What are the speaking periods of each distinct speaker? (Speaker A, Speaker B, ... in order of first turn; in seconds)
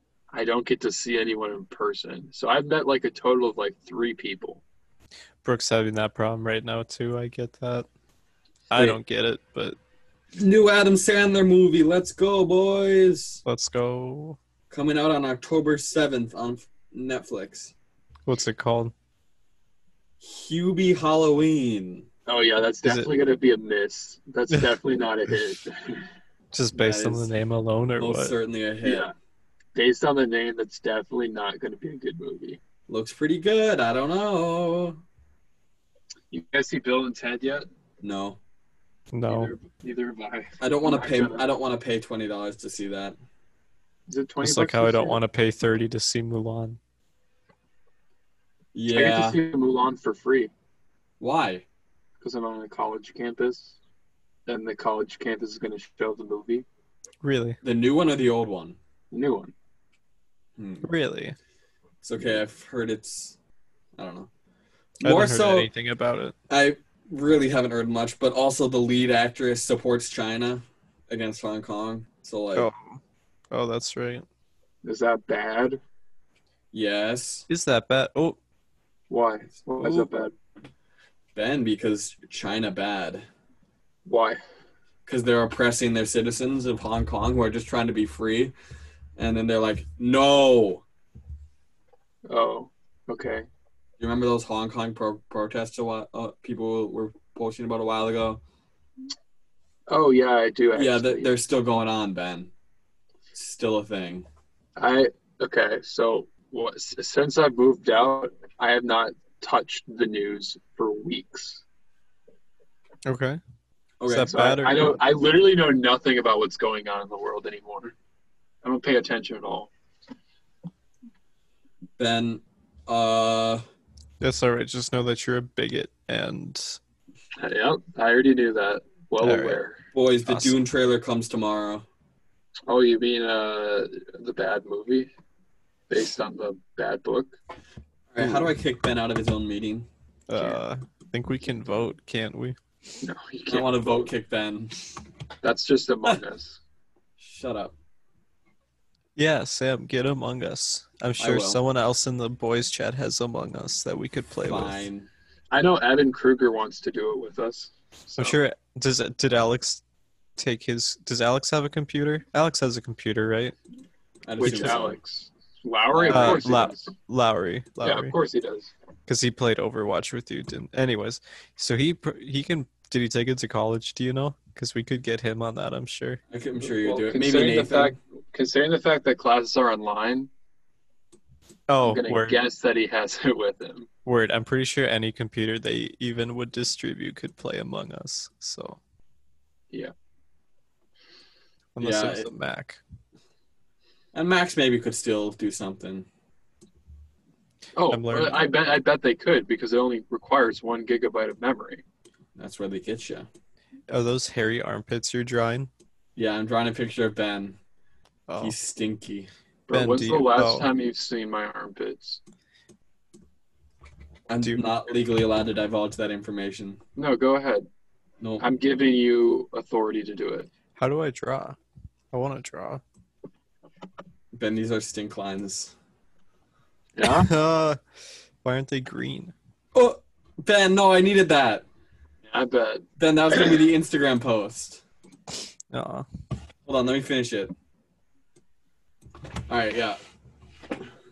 Speaker A: 0.3-4.6, 22.2-26.1, 28.8-29.1, 29.7-32.6, 36.3-37.7, 39.3-41.5, 44.1-45.2, 48.9-50.5, 52.2-53.8, 54.5-56.6, 59.1-59.5, 74.8-75.8, 79.1-80.3, 84.0-84.4, 92.3-93.5, 99.9-101.3, 104.8-111.6, 114.2-117.9, 118.6-119.7, 127.4-129.8, 132.7-135.1, 135.9-137.4, 143.0-144.1, 145.4-146.6, 155.5-158.3, 164.4-166.9, 167.8-168.7, 176.6-180.3, 181.8-183.9, 197.8-201.8, 209.7-212.2, 216.9-217.7, 218.4-220.5, 226.9-227.3, 232.3-232.8
Speaker B: 5.4-7.9, 8.7-9.8, 13.4-14.4, 18.2-18.9, 22.8-23.1, 26.5-28.3, 39.1-39.5, 44.4-46.8, 57.2-57.6, 60.8-61.4, 65.0-66.3, 72.5-73.0, 73.5-74.2, 77.5-78.4, 79.8-80.1, 113.0-113.4, 114.0-115.0, 124.2-126.8, 129.2-129.6, 130.2-130.5, 138.2-138.4, 140.3-142.6, 149.2-154.8, 158.1-159.8, 160.4-163.6, 164.4-164.7, 166.1-168.1, 169.1-176.2, 181.7-182.4, 184.0-188.8, 191.8-192.8, 197.9-198.5, 203.9-205.7, 208.3-208.5, 209.7-210.7, 214.4-214.7, 220.8-221.6, 222.1-222.8, 227.0-227.8, 228.4-229.3, 235.7-236.0
Speaker C: 10.3-13.4, 14.7-17.7, 20.2-22.1, 26.7-27.3, 28.0-29.1, 32.9-35.0, 38.0-38.4, 40.6-43.2, 48.7-49.4, 51.2-51.6, 57.6-58.8, 60.6-60.9, 62.0-63.4, 64.0-64.3, 65.0-65.7, 66.5-72.7, 76.7-77.5, 81.3-83.2, 85.1-88.5, 89.2-90.8, 94.0-98.4, 100.7-102.5, 103.3-104.3, 114.0-114.4, 122.0-123.6, 129.9-131.8, 138.1-139.9, 143.5-144.8, 147.2-147.7, 151.2-151.6, 154.4-155.1, 164.2-165.0, 165.9-166.5, 176.3-177.9, 191.8-192.3, 194.1-196.1, 202.3-203.3, 206.2-207.6, 208.4-209.3, 214.3-216.8, 224.3-225.7, 229.7-231.6, 233.0-234.8, 236.7-237.5, 239.5-240.0